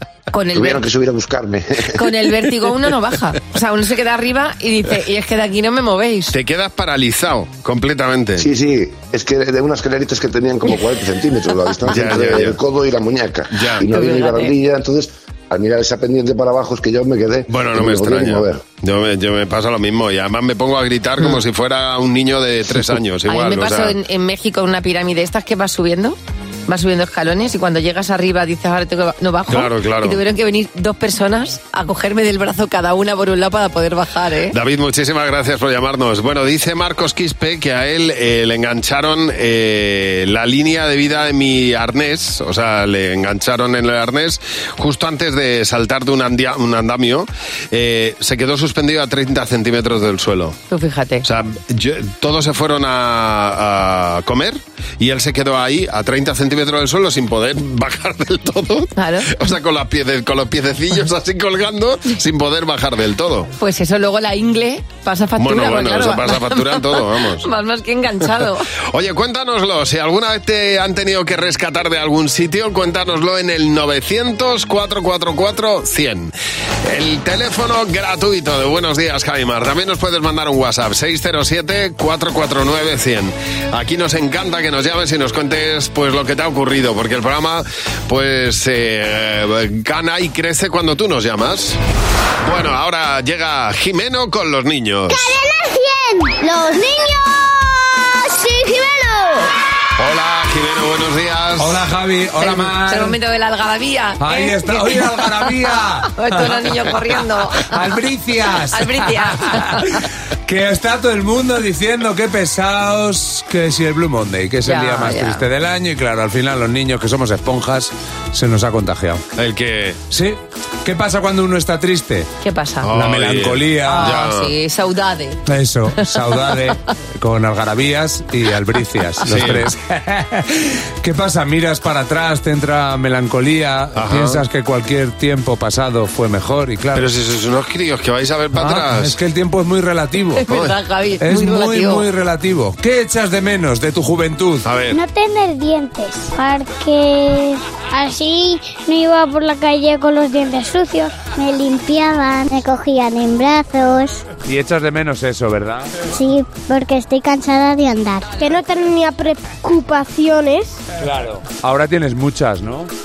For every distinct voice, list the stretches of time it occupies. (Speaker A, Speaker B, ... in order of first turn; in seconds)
Speaker A: 0.3-0.8, 1.9-6.3, 13.9-14.5, 23.3-26.2, 26.7-34.5, 50.7-51.2, 59.0-59.3, 63.6-68.7, 102.4-107.7, 108.7-110.0, 114.7-115.4, 122.4-122.9, 123.9-125.4, 126.0-126.7, 140.4-142.1
Speaker B: 0.6-1.8, 8.4-18.6
Speaker C: 6.3-8.5, 11.9-12.6, 13.5-13.9, 17.5-23.9, 29.5-30.2, 34.5-50.6, 51.2-63.5, 65.4-67.5, 68.9-76.3, 76.8-91.8, 92.4-95.3, 100.0-101.8, 119.4-120.0, 122.8-124.5, 129.3-129.7, 134.0-134.4, 136.9-139.2, 144.7-145.0
Speaker D: 95.1-99.5, 144.9-154.2, 156.1-160.8
Speaker E: 101.6-103.2, 104.2-106.6, 107.7-119.2, 120.1-122.3, 122.9-124.2, 125.5-137.1, 138.6-140.4, 141.2-144.7, 154.4-155.9, 161.0-162.9